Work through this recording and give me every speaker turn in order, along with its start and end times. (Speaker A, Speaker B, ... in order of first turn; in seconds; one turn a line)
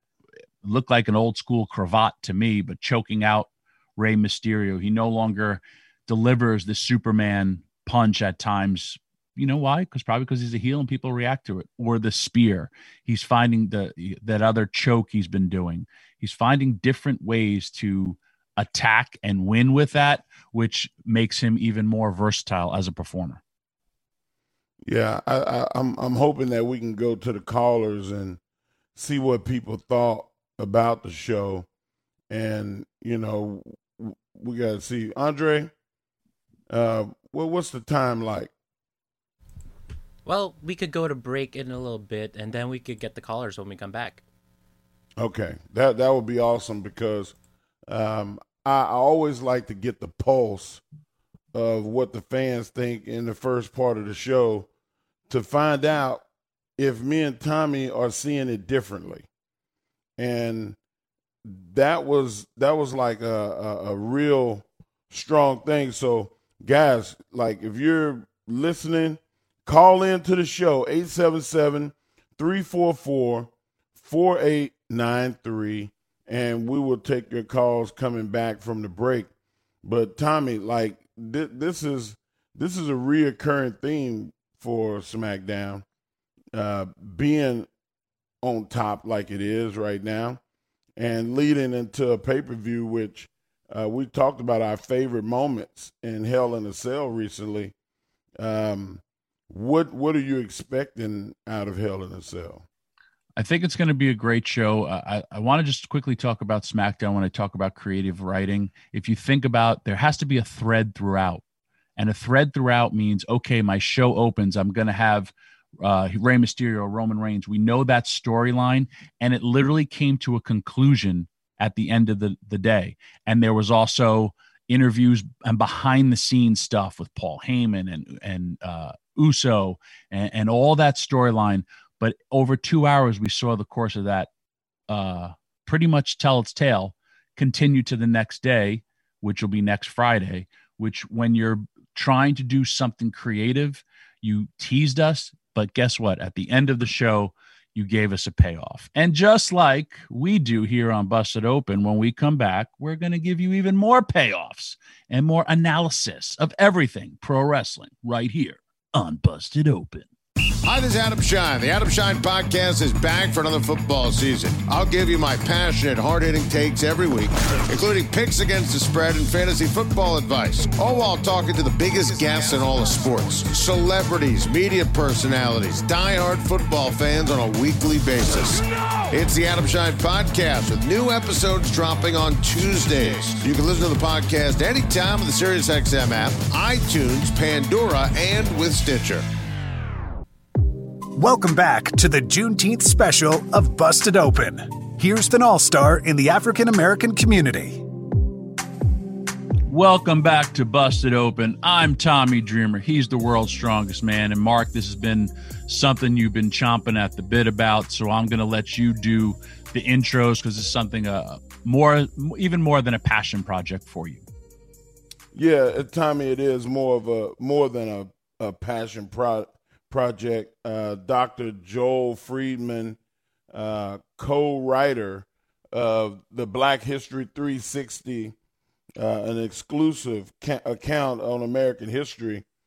Speaker A: 0.6-23.4
Speaker B: 24.8-28.4
Speaker B: 29.0-31.7
Speaker B: 32.3-35.7
Speaker B: 36.7-38.5
Speaker C: 40.2-44.2
Speaker B: 45.2-47.3
Speaker B: 47.9-50.8
Speaker B: 51.5-54.7
Speaker B: 55.3-56.2
Speaker B: 56.8-59.3
Speaker B: 60.2-60.8
Speaker B: 61.4-79.3
Speaker B: 79.8-85.8
Speaker B: 86.5-87.7
Speaker B: 88.4-90.4
Speaker B: 91.0-97.7
Speaker B: 98.4-102.7
Speaker A: 103.4-111.4
Speaker A: 112.0-134.3
Speaker A: 134.9-160.1
Speaker D: 160.6-189.2
Speaker E: 191.2-197.9
Speaker A: 199.7-214.2
Speaker B: 215.3-223.0
Speaker B: 223.5-228.3
Speaker B: 229.0-232.4